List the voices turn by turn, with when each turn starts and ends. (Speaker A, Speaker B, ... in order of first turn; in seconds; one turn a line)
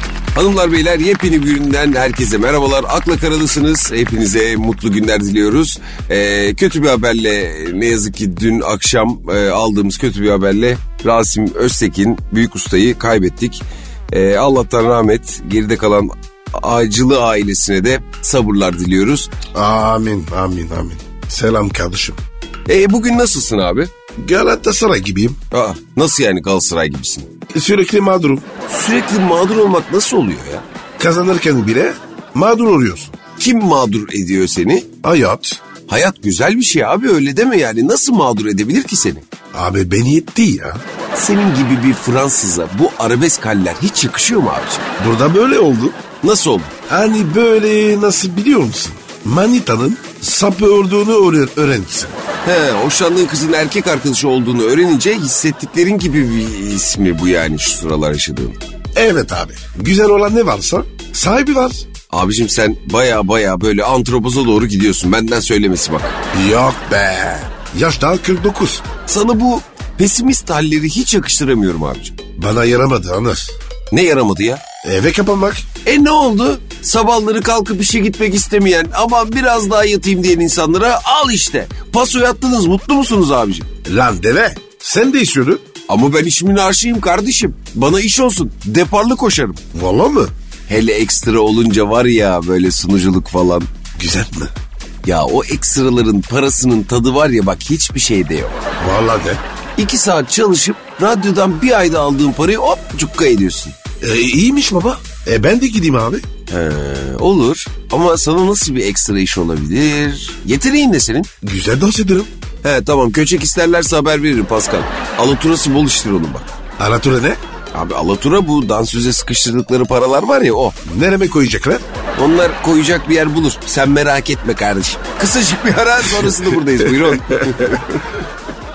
Speaker A: 0.3-19.3
Speaker B: 19.5-22.2
Speaker A: 22.6-23.9
Speaker B: 24.2-25.4
Speaker A: 25.5-27.3
Speaker B: 27.5-28.5
Speaker A: 28.7-30.6
Speaker B: 31.0-33.1
Speaker A: 33.4-34.9
Speaker B: 35.0-35.6
Speaker A: 35.9-39.2
Speaker B: 39.5-40.8
Speaker A: 41.1-44.9
Speaker B: 45.0-46.0
Speaker A: 46.2-46.7
Speaker B: 46.9-52.2
Speaker A: 52.4-58.6
Speaker B: 58.9-61.9
Speaker A: 62.1-66.1
Speaker B: 66.3-68.8
Speaker A: 69.1-72.2
Speaker B: 72.4-73.5
Speaker A: 73.9-74.6
Speaker B: 74.8-75.7
Speaker A: 75.8-83.7
Speaker B: 83.8-85.6
Speaker A: 85.9-89.6
Speaker B: 89.7-90.3
Speaker A: 90.7-93.7
Speaker B: 94.0-94.5
Speaker A: 95.0-98.5
Speaker B: 98.8-99.4
Speaker A: 99.8-103.8
Speaker B: 104.0-106.2
Speaker A: 106.5-111.3
Speaker B: 111.4-112.3
Speaker A: 112.6-116.5
Speaker B: 116.8-117.4
Speaker A: 117.7-120.7
Speaker B: 120.8-121.8
Speaker A: 122.2-128.1
Speaker B: 127.1-127.8